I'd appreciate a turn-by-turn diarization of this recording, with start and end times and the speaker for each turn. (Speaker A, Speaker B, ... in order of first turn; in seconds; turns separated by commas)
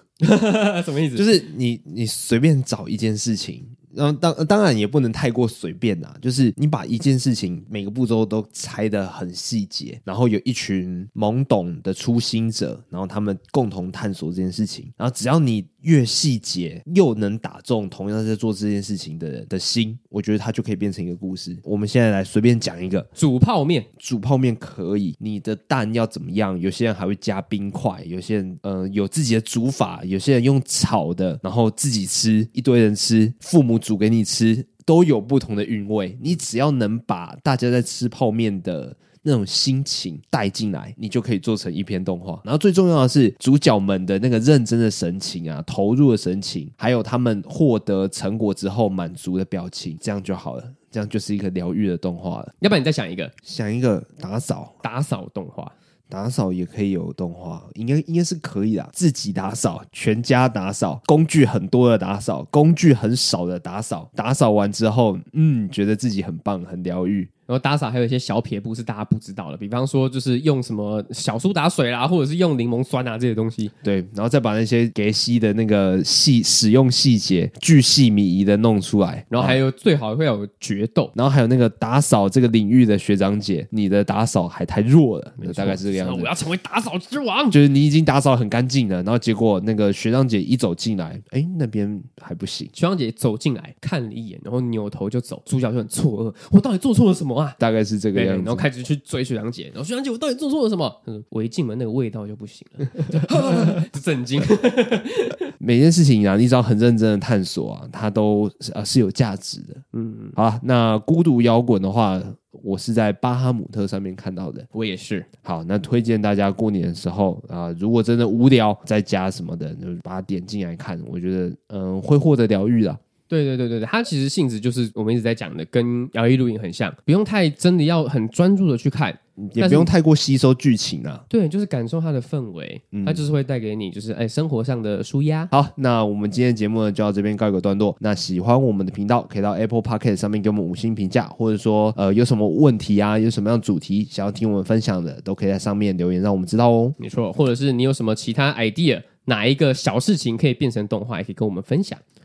Speaker A: 0.2-1.4, Speaker B: 1.1-23.1, Speaker A: 23.1-23.9, Speaker B: 24.0-52.5, Speaker A: 52.6-53.3, Speaker B: 53.4-54.8, Speaker A: 54.8-55.7, Speaker B: 56.1-67.3, Speaker A: 67.5-73.7, Speaker B: 73.8-79.6, Speaker A: 79.3-81.1, Speaker B: 81.1-86.3, Speaker A: 85.4-87.6, Speaker B: 87.5-92.7, Speaker A: 92.7-97.6, Speaker B: 97.6-98.7, Speaker A: 98.1-105.4, Speaker B: 103.3-103.7, Speaker B: 105.6-109.8, Speaker A: 109.9-110.4, Speaker B: 110.4-114.7, Speaker A: 114.7-115.3, Speaker B: 115.4-123.0, Speaker A: 123.3-129.9, Speaker B: 129.4-131.2, Speaker A: 131.3-135.5, Speaker B: 132.9-133.3, Speaker B: 135.5-146.9, Speaker A: 147.0-152.0